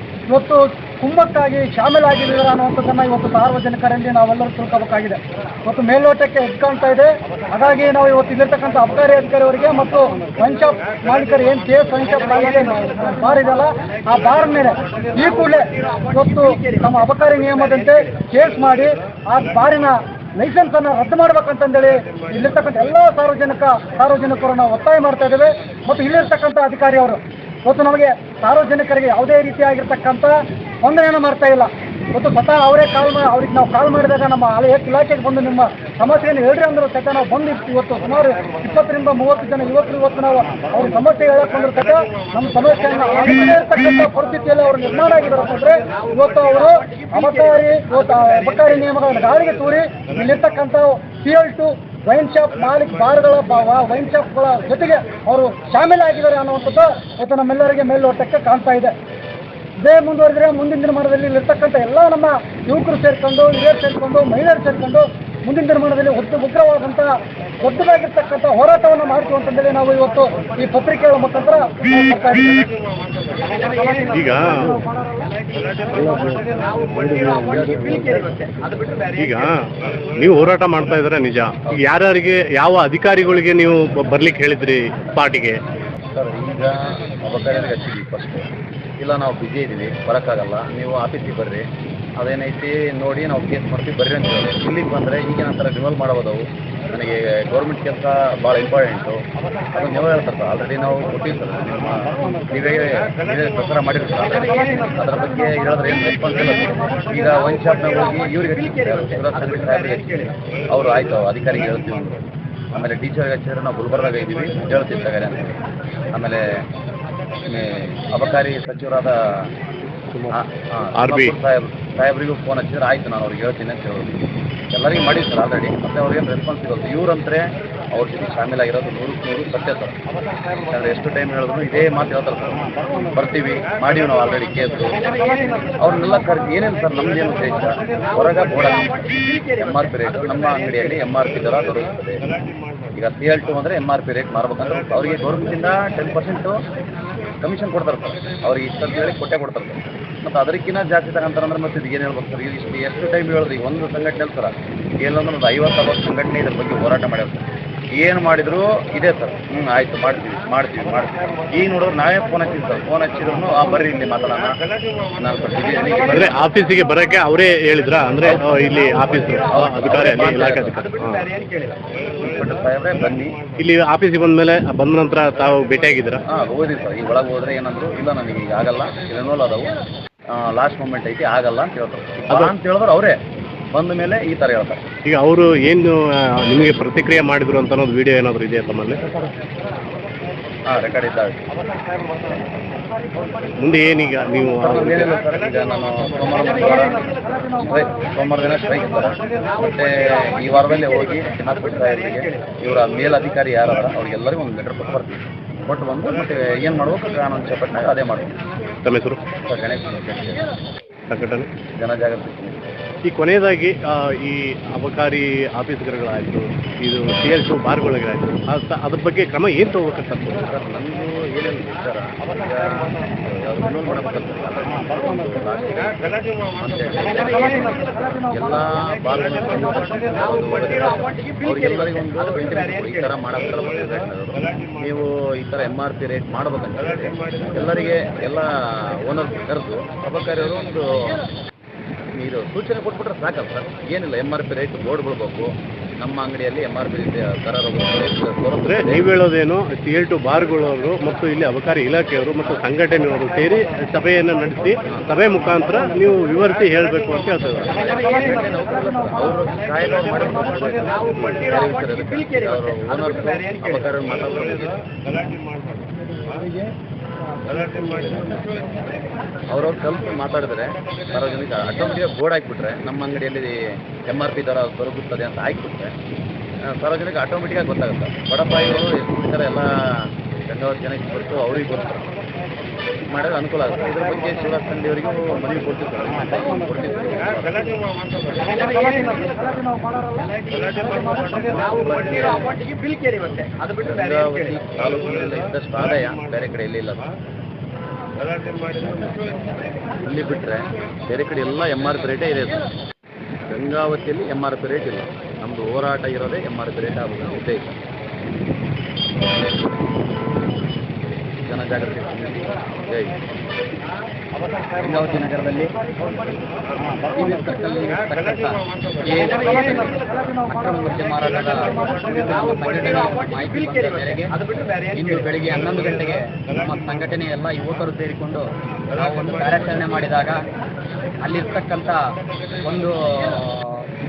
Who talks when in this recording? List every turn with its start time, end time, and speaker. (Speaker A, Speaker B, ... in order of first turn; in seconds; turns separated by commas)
Speaker A: 0.3-58.9, Speaker A: 59.8-67.1, Speaker A: 67.6-72.7, Speaker B: 74.1-74.8, Speaker B: 76.0-77.6, Speaker C: 77.4-78.4, Speaker B: 79.1-85.5, Speaker C: 86.1-88.5, Speaker C: 89.0-91.6, Speaker C: 92.2-99.2, Speaker C: 99.7-112.2, Speaker C: 112.7-115.6, Speaker C: 116.1-116.5, Speaker C: 117.5-119.5, Speaker C: 120.3-124.2, Speaker B: 121.0-121.3, Speaker C: 124.7-129.9, Speaker C: 130.7-135.1, Speaker C: 135.8-142.2, Speaker C: 143.0-146.6, Speaker C: 147.4-157.4, Speaker C: 158.0-164.6, Speaker C: 165.2-166.4, Speaker B: 166.1-171.3, Speaker C: 169.5-170.8, Speaker C: 172.2-173.4, Speaker B: 173.6-176.2, Speaker C: 176.3-179.8, Speaker C: 180.3-183.2, Speaker C: 183.7-184.8, Speaker B: 185.1-189.0, Speaker C: 190.7-191.4, Speaker B: 193.6-195.1, Speaker C: 194.6-208.4, Speaker B: 208.8-209.2, Speaker C: 209.4-210.4, Speaker B: 211.1-211.5, Speaker C: 211.8-212.7, Speaker B: 213.0-220.5, Speaker C: 220.4-241.2, Speaker C: 242.2-249.1, Speaker B: 248.7-257.8, Speaker C: 254.9-255.2, Speaker C: 257.7-264.8, Speaker C: 267.7-268.4, Speaker C: 269.5-273.6, Speaker C: 274.1-275.9, Speaker C: 276.7-282.1, Speaker C: 283.1-288.2, Speaker C: 291.0-292.7, Speaker C: 293.2-297.1, Speaker C: 300.0-302.6, Speaker C: 303.5-307.8, Speaker C: 311.5-313.2, Speaker D: 314.8-315.7, Speaker D: 317.2-324.3, Speaker D: 324.9-330.4, Speaker D: 331.2-332.0, Speaker D: 332.6-333.8